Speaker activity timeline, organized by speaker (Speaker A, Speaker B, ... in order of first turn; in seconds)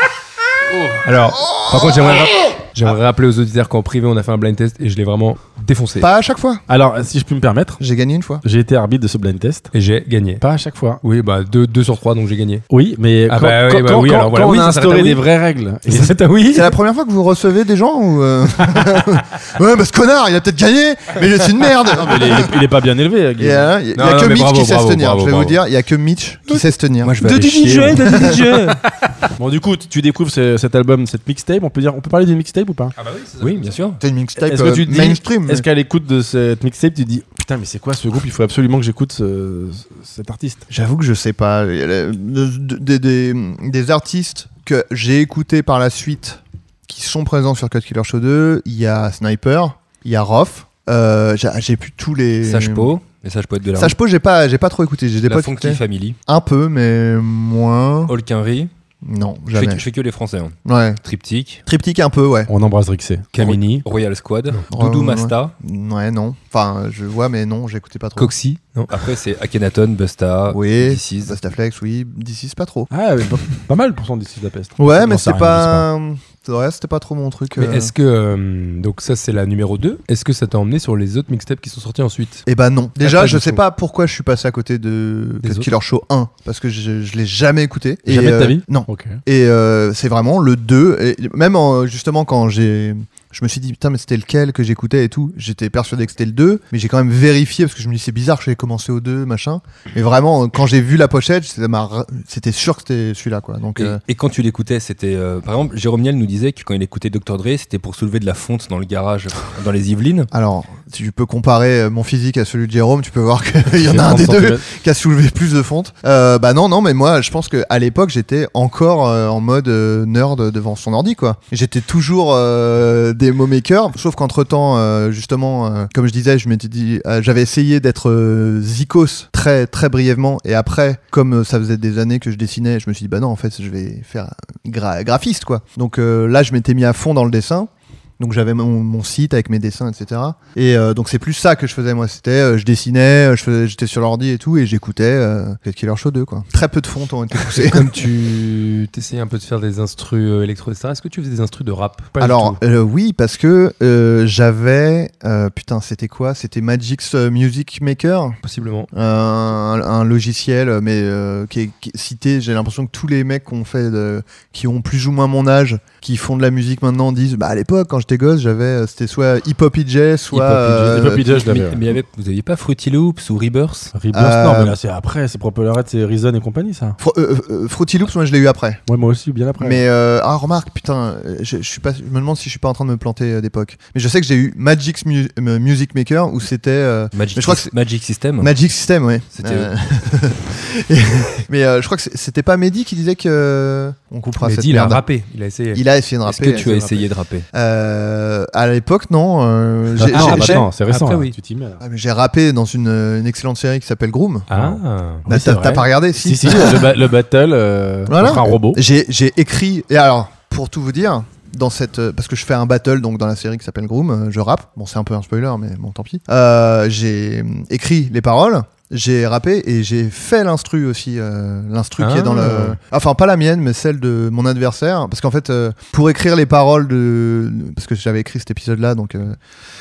Speaker A: 0.7-6.1, 9.7-10.4, 11.0-12.6, 13.3-15.2, 15.9-16.8, 23.9-25.6, 27.3-28.8, 33.0-33.7, 63.3-63.9, 68.2-68.9, 77.5-82.5, 83.0-83.6, 85.4-85.7, 147.5-152.6, 158.4-158.9, 194.4-195.8, 200.1-201.4, 204.5-205.3, 222.0-222.8
Speaker B: 1.3-2.5, 6.0-6.6, 7.8-8.4, 16.5-22.6, 23.4-27.2, 27.9-28.4, 34.0-35.7, 40.7-53.0, 53.8-58.1, 59.0-59.8, 60.7-61.0, 61.7-62.5, 64.7-68.3, 70.5-72.9, 74.8-77.9, 82.5-104.0, 110.3-148.0, 152.2-158.4, 158.9-171.3, 174.1-174.8, 177.0-178.8, 179.6-187.7, 188.4-195.0, 195.7-200.7, 201.8-204.5, 205.3-207.0, 208.1-229.4
Speaker C: 6.7-7.8, 8.4-9.7, 10.4-11.0, 12.7-16.2, 21.9-23.7, 27.2-28.2, 29.4-33.0, 34.4-40.6, 62.5-63.3, 72.9-75.9, 88.1-89.2, 113.8-114.6, 170.9-171.9, 173.9-177.0, 178.9-179.8, 199.9-201.8, 204.5-208.8
Speaker D: 27.0-28.8, 33.4-34.0, 52.4-54.0, 55.2-56.2, 58.1-58.7, 59.5-61.6, 63.4-65.5, 68.9-71.4, 103.8-110.3, 170.3-173.9, 187.1-188.5, 189.3-189.7, 196.3-197.4